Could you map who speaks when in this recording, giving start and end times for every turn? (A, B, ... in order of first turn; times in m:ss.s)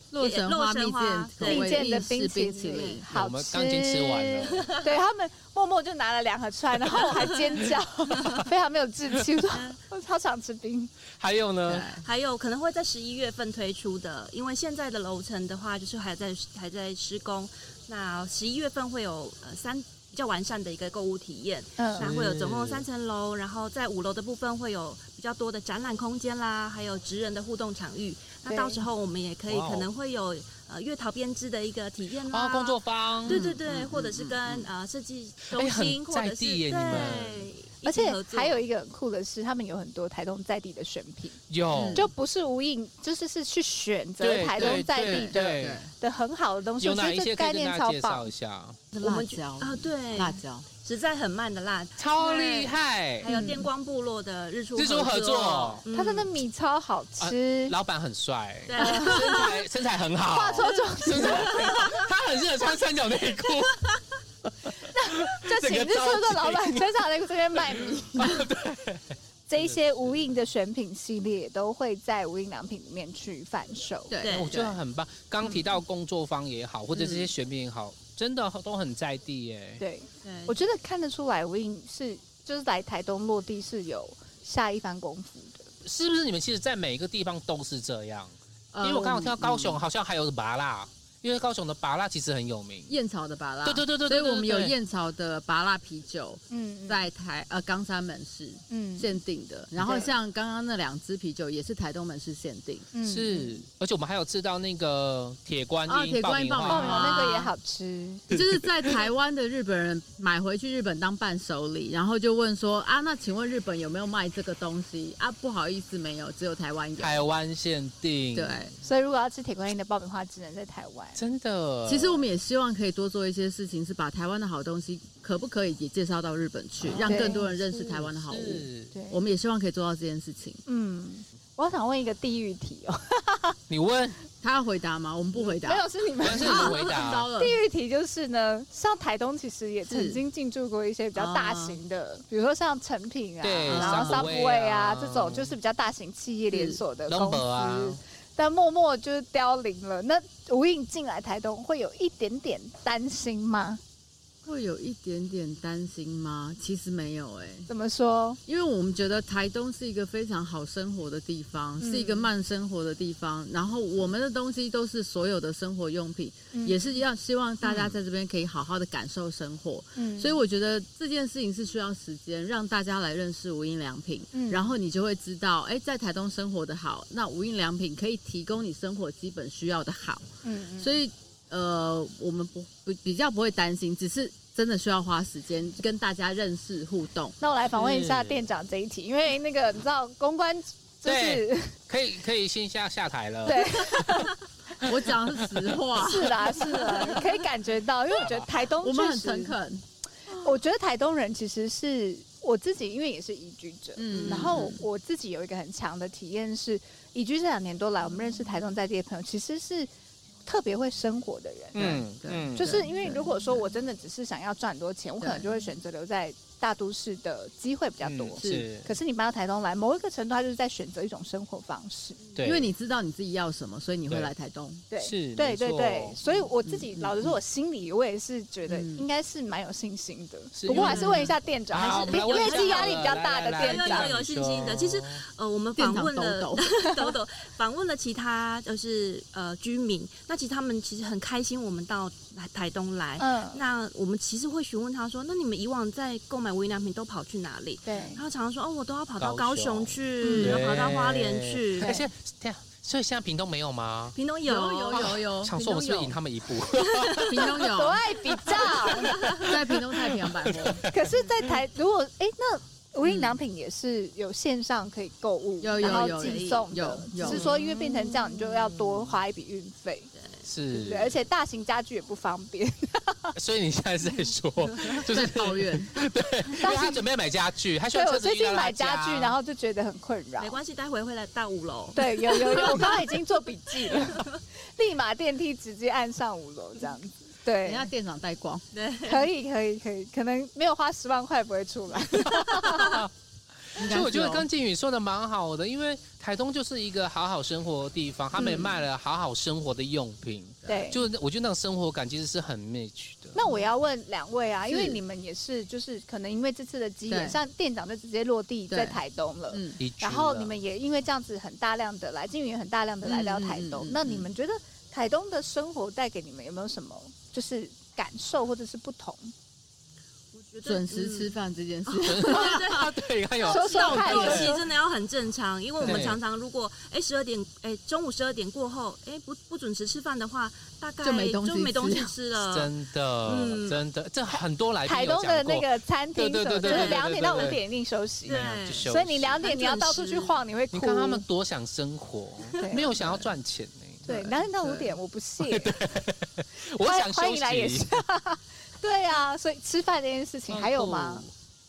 0:00.1-0:03.0 A
0:00.2-0:01.9 B
0:01.4-0:10.9 C
0:03.1-0:04.7 D
0:07.0-0:07.4 B
0:09.5-0:09.8 B
0:11.2-0:11.9 D
0:11.7-0:12.0 A
0:12.0-0:38.6 B
0:21.8-0:22.1 C
0:22.0-0:22.8 D
0:28.4-0:28.8 C
0:29.5-0:29.9 D
0:32.3-0:33.6 D
0:33.2-0:34.4 A
0:35.5-0:37.5 D
0:36.9-0:37.2 A
0:37.8-0:41.4 C
0:41.5-0:42.1 D
0:41.7-0:42.1 A
0:41.9-0:48.3 C
0:44.2-0:45.8 D
0:44.6-0:45.9 A
0:46.8-0:48.8 D
0:48.9-0:50.6 A
0:49.0-0:56.3 B
0:52.0-0:53.3 D
0:53.3-0:53.6 C
0:54.8-0:55.8 D
0:55.9-0:57.7 C
0:57.2-1:07.0 D
0:58.7-0:59.6 B
0:58.8-0:59.5 C
1:00.2-1:01.8 C
1:01.5-1:01.8 B
1:04.9-1:08.4 C
1:07.5-1:10.3 D
1:09.5-1:14.1 C
1:14.1-1:14.8 A
1:14.2-1:14.6 B
1:14.3-1:19.8 D
1:17.0-1:17.3 A
1:19.8-1:25.7 C
1:20.2-1:20.5 B
1:25.8-1:32.9 D
1:28.7-1:29.8 A
1:32.9-1:42.9 A
1:33.6-1:34.7 D
1:36.5-1:37.0 C
1:38.7-1:39.1 C
1:39.8-1:40.1 C
1:42.9-1:43.6 C
1:43.0-1:47.2 D
1:45.9-1:47.5 A
1:46.6-1:48.3 C
1:48.3-1:48.9 D
1:48.3-1:57.2 A
1:57.0-1:58.7 D
1:58.3-1:58.7 A
1:58.8-2:01.2 C
2:01.2-2:02.2 D
2:01.8-2:10.6 A
2:06.8-2:07.4 D
2:07.0-2:08.0 C
2:08.1-2:08.9 D
2:08.9-2:09.2 C
2:10.6-2:13.6 C
2:13.7-2:14.2 D
2:14.4-2:17.6 A
2:15.4-2:33.8 C
2:16.2-2:17.3 D
2:19.9-2:20.2 A
2:21.2-2:21.8 A
2:23.4-2:25.5 D
2:23.7-2:24.3 A
2:26.5-2:26.8 A
2:27.1-2:28.0 D
2:34.4-2:37.7 A
2:37.7-2:38.4 C
2:38.4-3:07.4 A
2:41.8-2:42.3 C
2:46.5-2:47.0 C
2:47.6-2:48.0 D
2:49.9-2:50.4 C
2:54.3-2:54.7 C
3:00.4-3:01.0 C
3:07.4-3:11.7 C
3:07.7-3:08.4 D
3:11.0-3:15.8 D
3:13.4-3:14.4 C
3:14.8-3:17.2 A
3:16.0-3:19.6 C
3:18.2-3:18.5 D
3:18.8-3:19.8 A
3:20.3-3:29.9 C
3:24.0-3:24.8 A
3:24.3-3:24.6 D
3:30.4-3:32.0 C
3:31.7-3:32.8 D
3:31.8-3:33.3 A
3:32.6-3:42.2 C
3:35.2-3:35.4 A
3:38.0-3:38.9 D
3:38.4-3:38.7 A
3:42.4-3:42.7 D
3:42.4-3:44.8 A
3:44.9-3:54.1 C
3:45.0-3:46.2 D
3:46.3-3:47.4 A
3:48.7-3:49.0 A
3:50.5-3:55.2 D
3:50.7-4:12.0 B
3:50.9-3:51.3 A
3:55.8-3:56.6 A
4:03.2-4:03.6 C
4:07.8-4:08.2 C
4:09.2-4:14.2 D
4:10.2-4:10.6 C
4:14.2-4:15.2 B
4:14.4-4:16.1 A
4:14.9-4:17.6 D
4:16.7-4:17.4 B
4:17.2-4:20.9 A
4:17.5-4:19.4 C
4:18.5-4:21.1 D
4:19.2-4:19.4 B
4:20.9-4:30.1 C
4:25.6-4:27.5 A
4:25.8-4:26.6 B
4:27.3-4:27.6 D
4:30.2-4:30.4 B
4:30.4-4:31.2 D
4:30.7-4:33.3 C
4:33.3-4:39.4 D
4:35.0-4:35.9 A
4:36.6-4:37.0 C
4:37.9-4:40.6 C
4:40.4-4:43.0 B
4:41.9-4:47.9 C
4:43.8-4:44.3 B
4:47.6-4:48.6 A
4:48.7-4:49.3 B
4:49.0-4:53.0 C
4:52.6-4:53.1 D
4:53.7-5:03.4 D
4:53.8-4:54.4 A
4:58.4-4:58.7 C
5:00.6-5:01.0 C
5:03.3-5:19.3 C
5:04.7-5:05.0 A
5:07.1-5:07.4 A
5:08.7-5:09.0 A
5:09.5-5:09.8 A
5:09.8-5:10.6 D
5:13.0-5:14.2 A
5:20.3-5:21.3 B
5:20.6-5:22.7 A
5:21.8-5:32.7 B
5:22.0-5:24.5 D
5:23.4-5:24.6 C
5:23.7-5:24.5 A
5:25.8-5:26.2 D
5:31.0-5:32.1 A
5:32.4-5:37.6 D
5:33.2-5:33.8 B
5:34.8-5:41.2 C
5:36.6-5:37.6 B
5:38.2-5:38.9 B
5:38.2-5:39.4 D
5:39.4-5:40.3 B
5:40.7-5:44.3 D
5:42.6-5:43.0 C
5:44.0-5:45.8 C
5:44.1-5:44.9 A
5:45.4-5:47.9 D
5:46.8-5:51.2 C
5:50.5-5:51.3 D